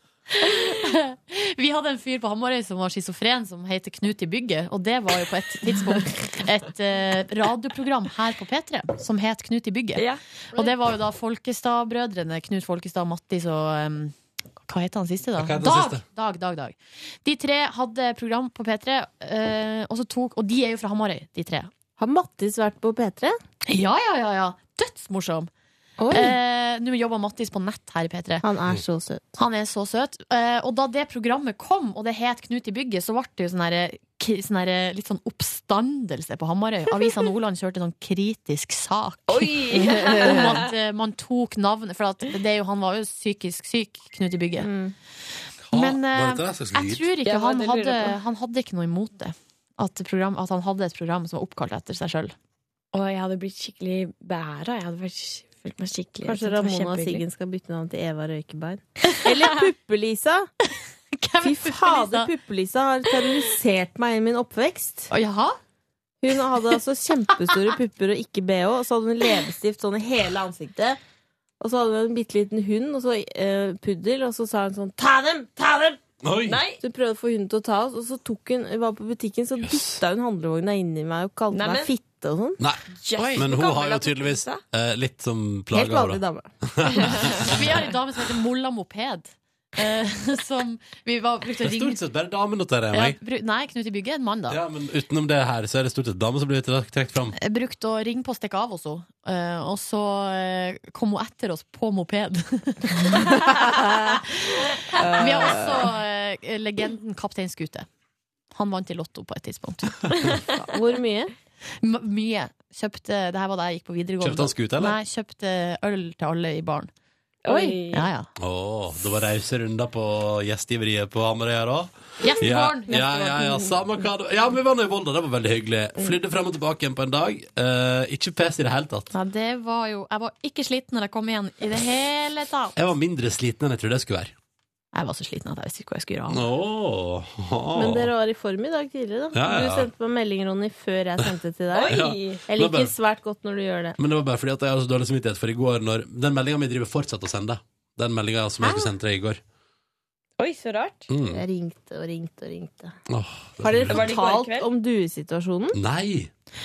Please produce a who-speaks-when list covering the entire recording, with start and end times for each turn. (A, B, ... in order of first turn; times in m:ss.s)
0:00.4-0:14.2 A
0:10.0-0:10.7 B
0:14.7-0:21.7 A
0:15.4-0:16.0 C
0:22.0-0:23.4 D
0:23.7-0:25.5 A
0:26.0-0:26.4 D
0:26.1-0:28.4 A
0:28.4-0:29.4 D
0:29.4-0:44.7 A
0:39.3-0:40.6 B
0:39.8-0:40.6 D
0:44.6-0:44.9 D
0:45.6-0:47.1 C
0:45.7-0:52.4 A
0:47.2-0:48.2 B
0:52.9-0:57.2 B
0:56.2-1:00.5 D
1:01.2-1:02.3 A
1:01.4-1:05.1 D
1:05.1-1:05.6 A
1:06.2-1:11.0 D
1:11.6-1:16.0 D
1:16.2-1:16.6 C
1:16.5-1:16.8 B
1:16.8-1:22.6 D
1:19.6-1:20.0 C
1:21.5-1:21.9 B
1:22.9-1:24.6 B
1:23.2-1:23.5 A
1:23.4-1:27.5 C
1:25.7-1:26.5 D
1:27.4-1:32.0 A
1:31.6-1:33.2 C
1:32.9-1:34.6 A
1:34.5-1:37.4 C
1:37.4-1:47.9 A
1:43.5-1:43.8 D
1:45.0-1:45.6 B
1:45.2-1:45.6 D
1:48.5-1:50.0 A
1:50.6-1:51.3 D
1:51.8-1:56.9 A
1:54.2-1:55.0 C
1:57.4-1:58.1 B
1:57.5-1:58.3 A
1:58.4-2:09.1 C
2:02.2-2:03.3 A
2:03.0-2:03.6 D
2:09.1-2:12.8 A
2:12.8-2:14.3 C
2:14.9-2:16.4 A
2:16.3-2:18.1 C
2:17.8-2:24.0 D
2:19.3-2:19.9 C
2:21.7-2:22.4 B
2:21.9-2:22.9 C
2:24.0-2:29.4 C
2:30.4-2:31.1 B
2:31.1-2:31.4 C
2:31.3-2:33.0 D
2:33.1-2:34.1 C
2:33.6-2:35.8 D
2:33.9-2:34.7 B
2:35.7-2:36.3 C